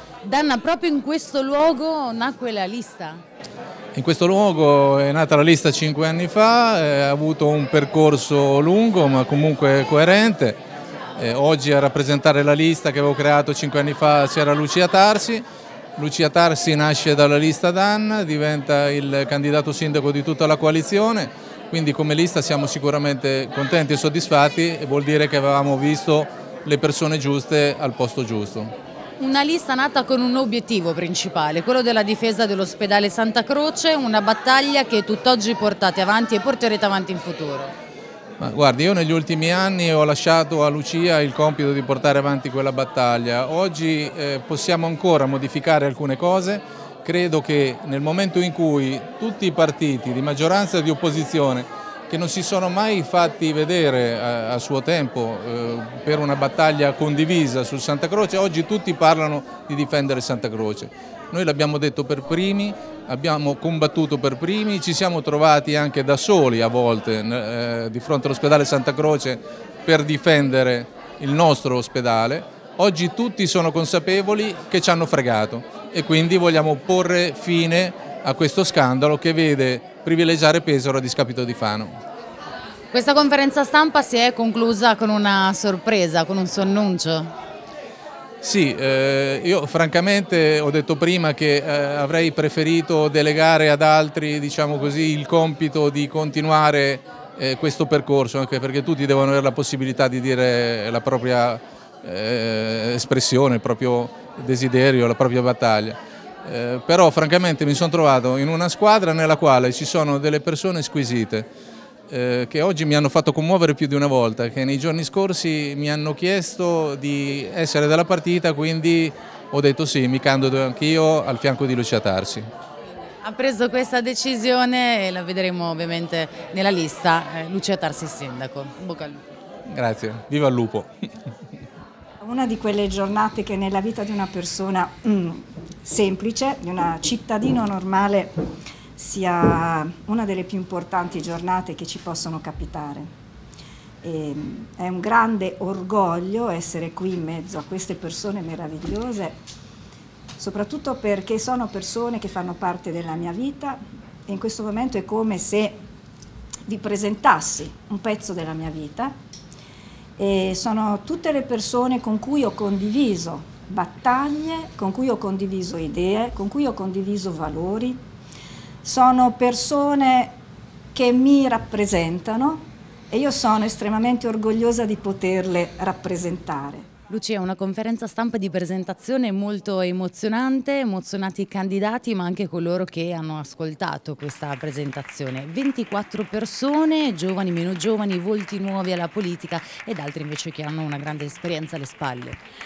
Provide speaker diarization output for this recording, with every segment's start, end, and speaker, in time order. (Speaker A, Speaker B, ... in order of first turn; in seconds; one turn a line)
Speaker A: 0.2-3.2
Speaker B: 3.9-10.6
Speaker B: 11.2-15.4
Speaker B: 16.0-28.8
Speaker A: 29.2-37.7
Speaker B: 38.4-82.0
Speaker A: 82.9-87.3
Speaker B: 88.4-111.5
Speaker B: 112.1-122.5
Speaker A: 123.2-129.2
Speaker B: 129.7-130.9
Speaker C: 132.2-138.4
Speaker C: 139.0-143.1
Speaker C: 144.0-149.4
Speaker C: 150.4-155.8
Speaker C: 156.7-159.2
Speaker C: 160.2-168.0
Speaker C: 168.8-170.3
Speaker C: 170.9-176.9
Speaker A: 177.1-192.4